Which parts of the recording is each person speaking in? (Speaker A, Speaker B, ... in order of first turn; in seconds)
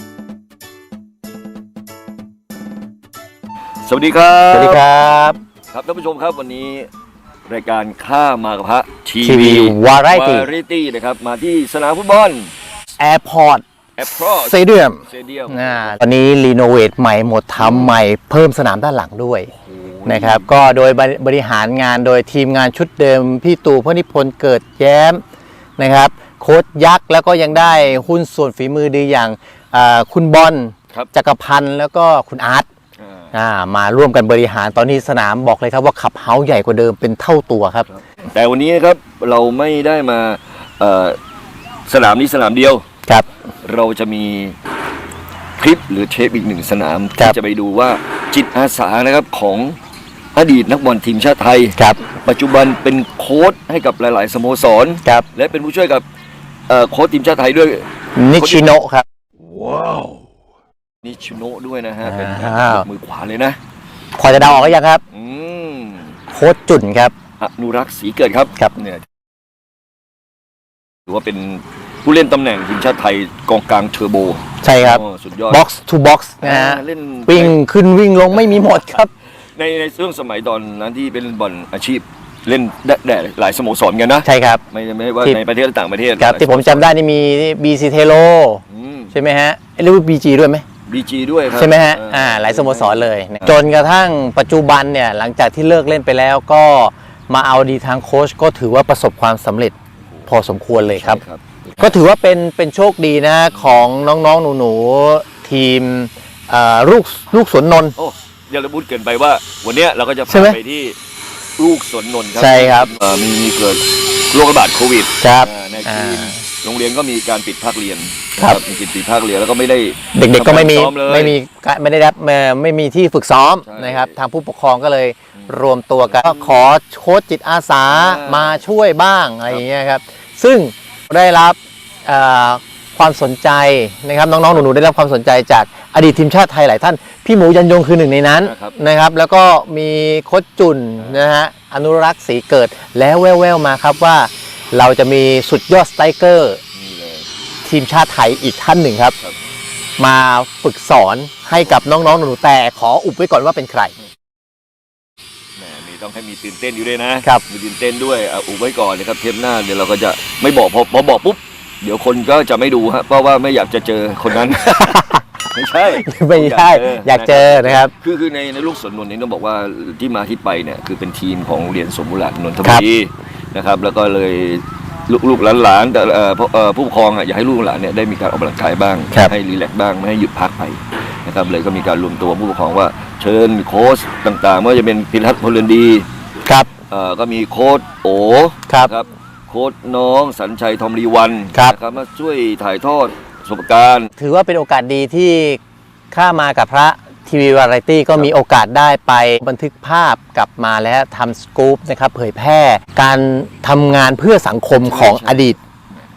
Speaker A: 3.8-4.8, 5.7-6.9, 7.5-12.5, 14.0-16.0, 17.6-17.9, 19.6-20.5, 33.0-33.3, 37.9-41.2, 41.9-42.8, 43.6-44.5, 45.6-49.8, 50.3-56.0, 56.7-58.7, 59.6-60.1, 61.0-63.6, 64.3-66.2, 67.4-69.0, 71.1-75.6, 76.4-77.5, 78.4-86.9, 88.7-89.2, 90.9-93.7, 100.0-100.3, 100.9-102.0, 103.5-103.9, 108.0-111.0, 111.6-121.4, 123.6-124.2, 125.3-126.7, 127.9-128.6, 138.4-138.8, 141.0-141.3, 146.7-147.3, 155.6-186.1, 186.9-194.1, 204.8-206.1
Speaker B: 4.5-5.4, 9.2-10.5, 13.0-13.6, 14.4-19.5, 20.1-25.2, 25.8-32.7, 33.3-37.9, 51.8-52.0, 58.1-59.0, 62.0-62.9, 64.2-65.0, 66.3-67.1, 74.6-79.1, 84.2-84.6, 86.2-90.6, 91.5-99.7, 100.3-101.2, 101.8-107.9, 110.3-110.6, 112.4-112.9, 115.2-116.4, 120.1-146.6, 147.6-149.2, 150.0-153.9, 164.6-167.9, 186.4-186.7, 194.2-195.6, 196.1-205.6